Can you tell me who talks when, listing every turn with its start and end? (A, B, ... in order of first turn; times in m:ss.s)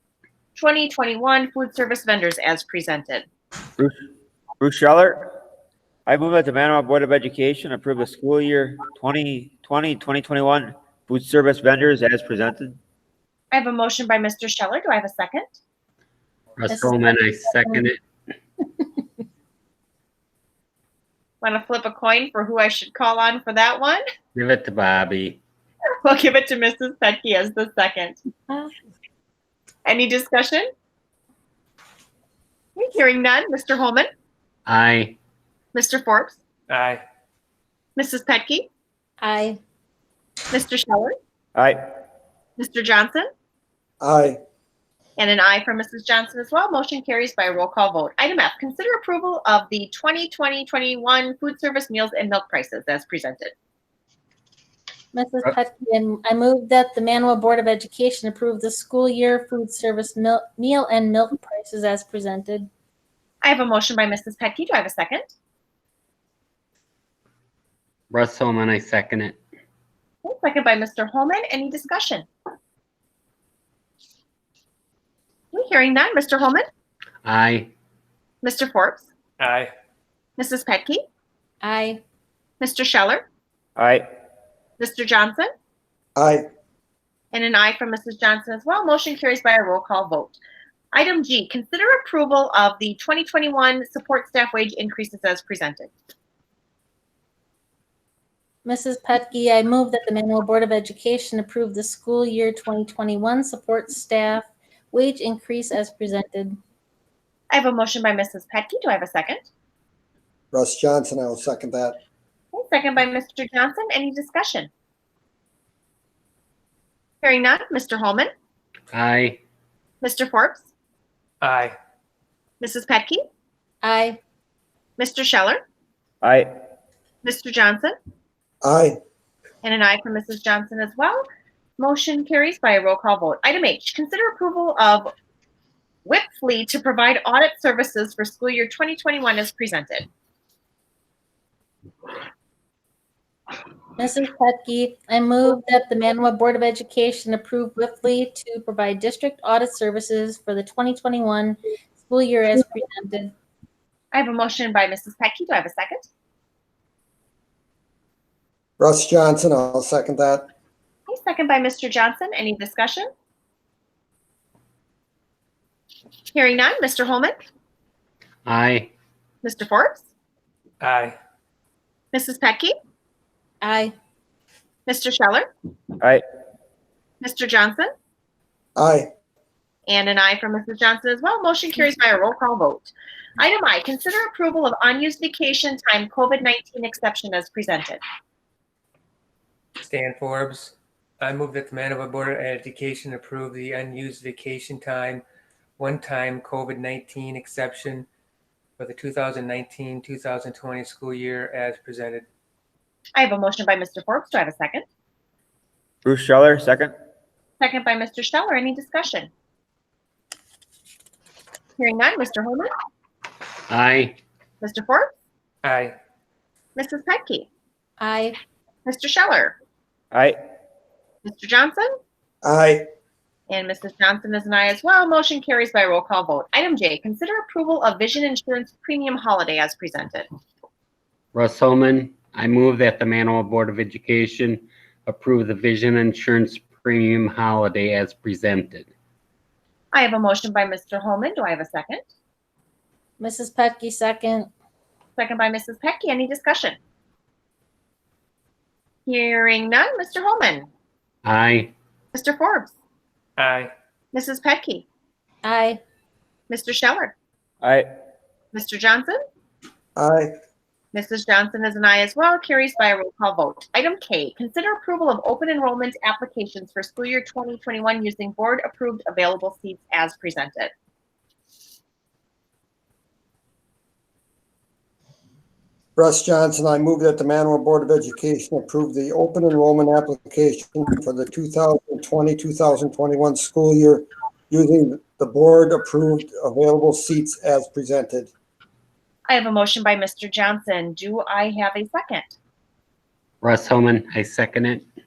0:00.6-0:03.3 A
0:04.6-0:05.2 B
0:06.1-0:12.8 B
0:13.5-0:15.5 A
0:16.6-0:18.0 C
0:16.7-0:17.8 D
0:21.4-0:24.0 A
0:24.4-0:25.4 C
0:26.0-0:28.2 A
0:29.9-0:30.7 A
0:32.8-0:34.1 A
0:34.7-0:35.2 C
0:35.7-0:36.4 A
0:36.7-0:37.0 E
0:38.0-0:38.7 A
0:39.2-0:39.6 D
0:40.5-0:41.2 A
0:42.6-0:43.3 A
0:44.0-0:44.4 F
0:45.2-0:53.5 A
0:55.1-1:02.7 D
1:03.4-1:05.3 A
1:08.1-1:09.4 C
1:10.2-1:12.3 A
1:15.5-1:16.7 A
1:17.2-1:17.7 C
1:18.4-1:19.1 A
1:19.4-1:19.7 E
1:20.4-1:21.0 A
1:21.6-1:22.0 D
1:22.6-1:23.2 A
1:23.8-1:24.0 B
1:24.8-1:25.5 A
1:26.2-1:26.5 F
1:27.3-1:30.4 A
1:30.9-1:35.9 A
1:38.6-1:46.6 D
1:47.5-1:49.5 A
1:50.5-1:52.0 F
1:52.5-1:54.7 A
1:57.2-1:58.3 A
1:58.9-1:59.4 C
2:00.0-2:00.7 A
2:01.4-2:01.8 E
2:02.6-2:03.2 A
2:03.8-2:04.2 D
2:05.0-2:05.6 A
2:06.2-2:06.5 B
2:07.2-2:08.0 A
2:08.6-2:09.0 F
2:09.6-2:11.3 A
2:11.8-2:15.1 A
2:16.0-2:20.1 A
2:24.0-2:33.3 D
2:34.1-2:36.1 A
2:38.8-2:40.5 F
2:41.1-2:43.1 A
2:46.3-2:47.4 A
2:48.5-2:48.9 C
2:49.4-2:50.0 A
2:50.8-2:51.2 E
2:52.1-2:52.8 A
2:53.6-2:53.9 D
2:54.9-2:55.5 A
2:57.2-2:57.9 A
2:58.8-2:59.1 F
2:59.9-3:08.0 A
3:09.8-3:15.2 E
3:15.8-3:18.1 E
3:18.8-3:22.2 E
3:23.2-3:24.8 A
3:26.0-3:26.9 B
3:27.6-3:29.3 A
3:31.8-3:32.7 A
3:33.7-3:34.2 C
3:34.6-3:35.1 A
3:35.6-3:36.0 E
3:36.8-3:37.5 A
3:38.0-3:38.4 D
3:38.8-3:39.6 A
3:41.2-3:41.9 A
3:42.4-3:42.9 F
3:43.5-3:50.3 A
3:51.4-3:58.9 C
3:59.9-4:02.0 A
4:03.2-4:04.5 D
4:05.2-4:06.8 A
4:09.1-4:10.7 A
4:11.2-4:11.7 C
4:12.1-4:12.7 A
4:13.4-4:13.7 E
4:14.1-4:14.9 A
4:15.4-4:15.8 D
4:16.5-4:17.1 A
4:17.6-4:17.9 B
4:18.5-4:19.2 A
4:20.0-4:20.3 F
4:20.9-4:30.7 A
4:36.0-4:48.3 F
4:49.3-4:52.4 A
4:53.4-4:54.8 C